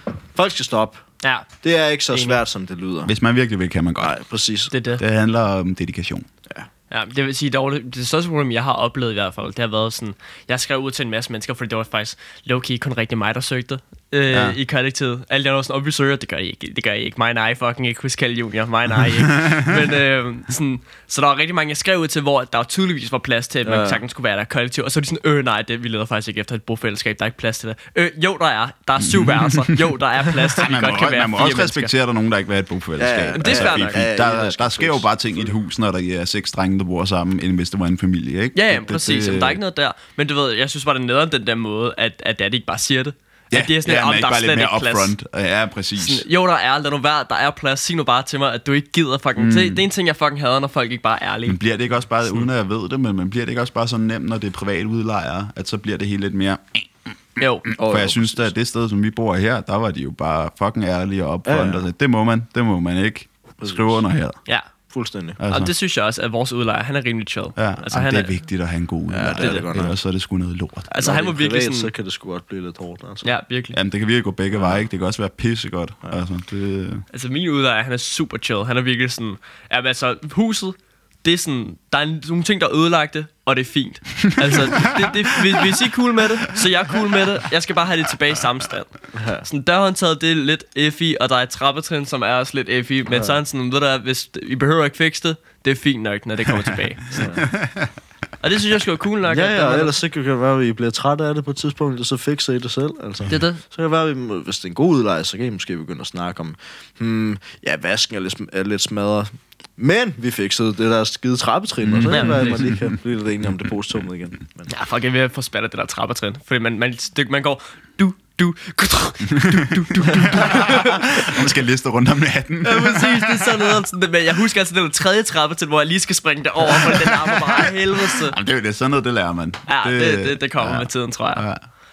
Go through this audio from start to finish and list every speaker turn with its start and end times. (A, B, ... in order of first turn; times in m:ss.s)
0:00.3-0:01.0 A
0:01.2-0:01.5 B
0:01.6-0:03.1 A
0:02.1-0:02.4 B
0:03.0-0:04.2 C
0:04.0-0:04.7 A
0:04.7-0:05.0 B
0:05.0-0:06.3 C
0:06.9-0:31.9 B
0:14.3-0:14.6 C
0:19.4-0:19.7 C
0:23.6-0:24.0 A
0:29.0-0:29.9 C
0:30.6-0:39.6 C
0:33.0-0:35.5 A
0:33.4-0:34.0 B
0:38.5-0:45.1 B
0:43.5-0:46.2 C
0:46.0-0:51.6 B
0:49.4-0:49.8 C
0:51.4-0:57.1 C
0:57.4-0:57.7 B
0:57.6-1:04.4 C
0:57.8-0:58.5 A
1:01.5-1:01.9 A
1:03.6-1:04.0 A
1:04.9-1:05.4 A
1:05.4-1:05.7 C
1:05.5-1:08.4 B
1:07.6-1:10.9 C
1:09.1-1:10.0 A
1:09.4-1:09.6 B
1:10.9-1:11.9 B
1:10.9-1:13.3 A
1:13.2-1:13.8 B
1:13.7-1:17.1 C
1:17.1-1:37.4 B
1:24.5-1:24.9 C
1:29.1-1:29.5 A
1:37.1-1:37.4 A
1:37.5-1:37.9 C
1:38.4-1:39.9 B
1:39.3-1:54.7 A
1:43.3-1:43.6 B
1:51.8-1:52.9 C
1:52.1-1:52.7 B
1:54.7-2:01.4 B
1:59.3-2:03.8 C
2:02.6-2:08.4 B
2:06.7-2:11.6 C
2:09.7-2:11.4 B